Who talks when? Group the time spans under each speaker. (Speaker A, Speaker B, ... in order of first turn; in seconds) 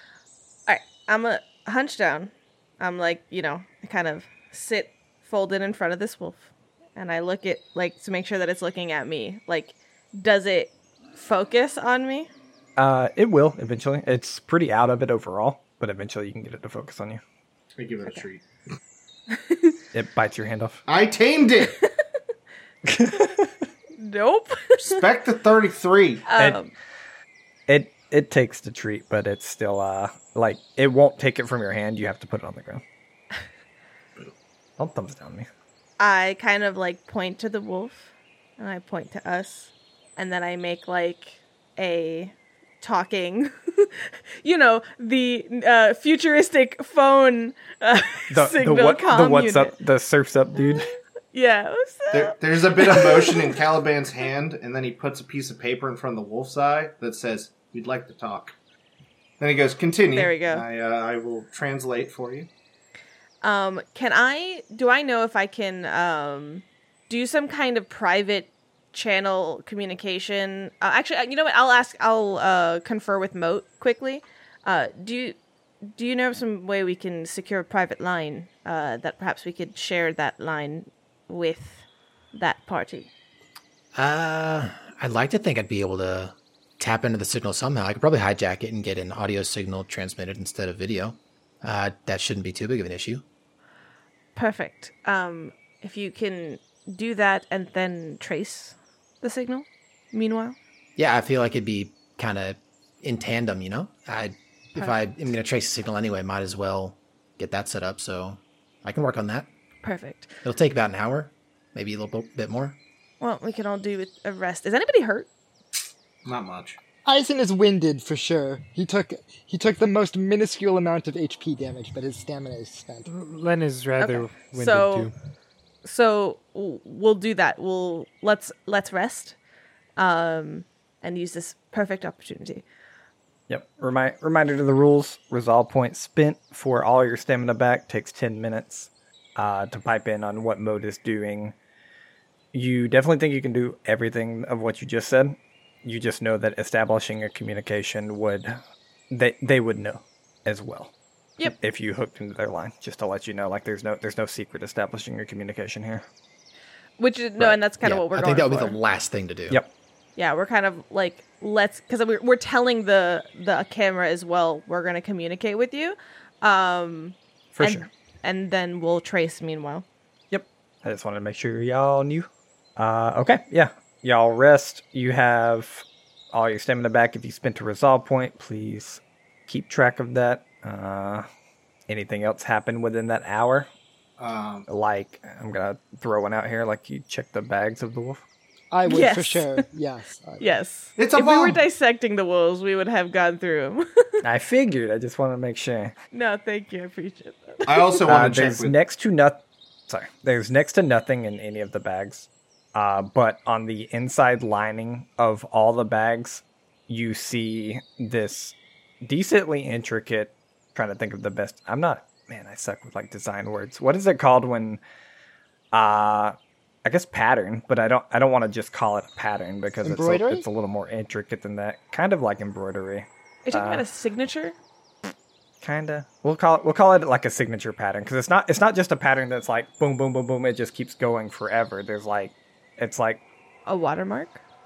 Speaker A: 0.7-12.3, 19.3-19.8, 24.0-25.0, 26.3-26.7, 36.0-49.8, 50.6-53.6, 60.1-60.6, 63.4-83.1, 94.3-100.6, 109.8-110.4, 113.2-115.3, 124.0-125.1, 125.8-129.4, 130.0-132.6, 157.0-158.8, 160.2-169.9, 188.9-189.6, 190.4-194.2, 196.1-198.0, 223.5-224.6, 233.7-234.4
Speaker B: 12.8-17.2, 19.9-20.8, 22.9-23.5, 27.7-32.8, 34.8-35.5, 48.3-50.9, 133.5-141.5, 142.5-148.6, 149.1-156.1, 167.5-167.9, 170.3-181.3, 181.9-183.7, 184.7-188.2, 194.2-195.9, 198.1-214.8, 215.7-223.8, 225.6-233.2
Speaker C: 17.8-18.4, 20.9-21.8, 24.8-26.3, 52.1-58.6, 59.4-62.5, 116.2-116.8, 184.2-184.7, 191.0-191.6, 197.7-198.8
Speaker D: 84.0-93.2, 101.0-109.5, 110.4-112.8, 157.4-159.6
Speaker E: 117.0-123.1, 188.7-190.5, 219.8-220.5
Speaker F: 123.1-125.1